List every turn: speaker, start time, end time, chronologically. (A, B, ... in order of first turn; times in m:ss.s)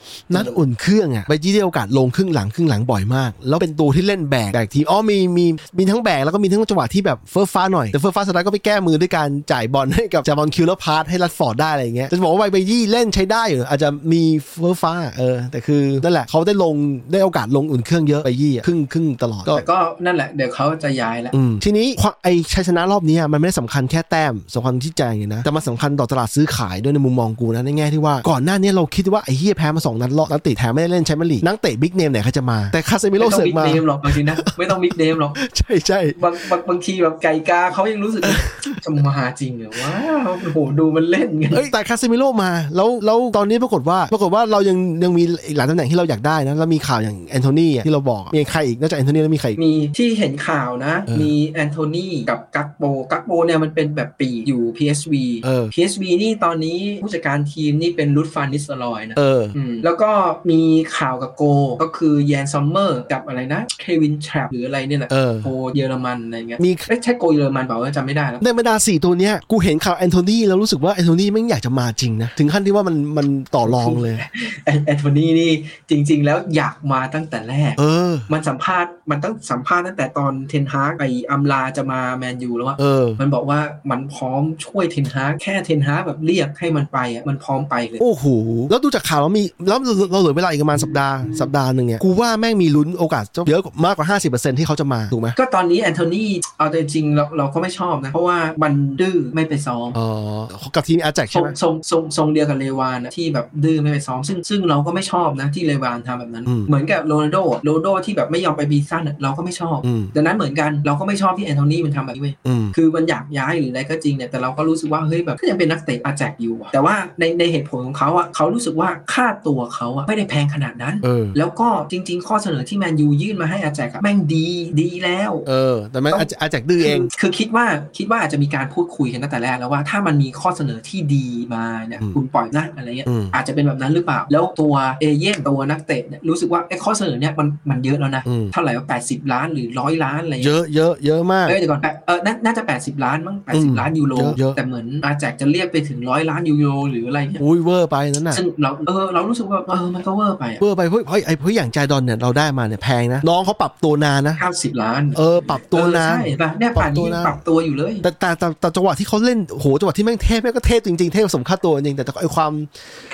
0:00.3-0:19.6 A
0:00.3-0:00.6 B
0:19.5-0:21.3 B
0:21.3-0:34.8 A
0:33.2-0:35.4 B
0:35.4-0:36.2 A
0:36.2-0:41.7 B
0:38.2-0:38.8 A
0:41.5-0:49.6 A
0:49.6-1:08.4 B
0:55.4-0:55.7 A
0:59.2-0:59.6 A
1:05.1-1:05.5 A
1:06.6-1:06.9 A
1:08.4-1:14.2 A
1:13.6-1:28.0 B
1:17.8-1:18.3 A
1:22.8-1:23.2 A
1:28.0-1:35.4 A
1:35.4-1:40.0 B
1:39.9-1:41.6 A
1:41.3-2:05.5 B
1:49.8-1:50.1 A
1:52.4-1:52.7 A
2:01.0-2:01.4 A
2:05.5-2:07.1 A
2:06.8-2:20.5 B
2:13.1-2:13.4 A
2:18.2-2:18.5 A
2:20.4-2:21.6 A
2:21.5-2:27.4 B
2:23.5-2:24.6 A
2:27.4-2:28.4 A
2:28.3-2:30.6 B
2:30.6-2:34.4 A
2:34.4-2:38.0 B
2:35.2-2:37.4 A
2:38.0-2:42.7 A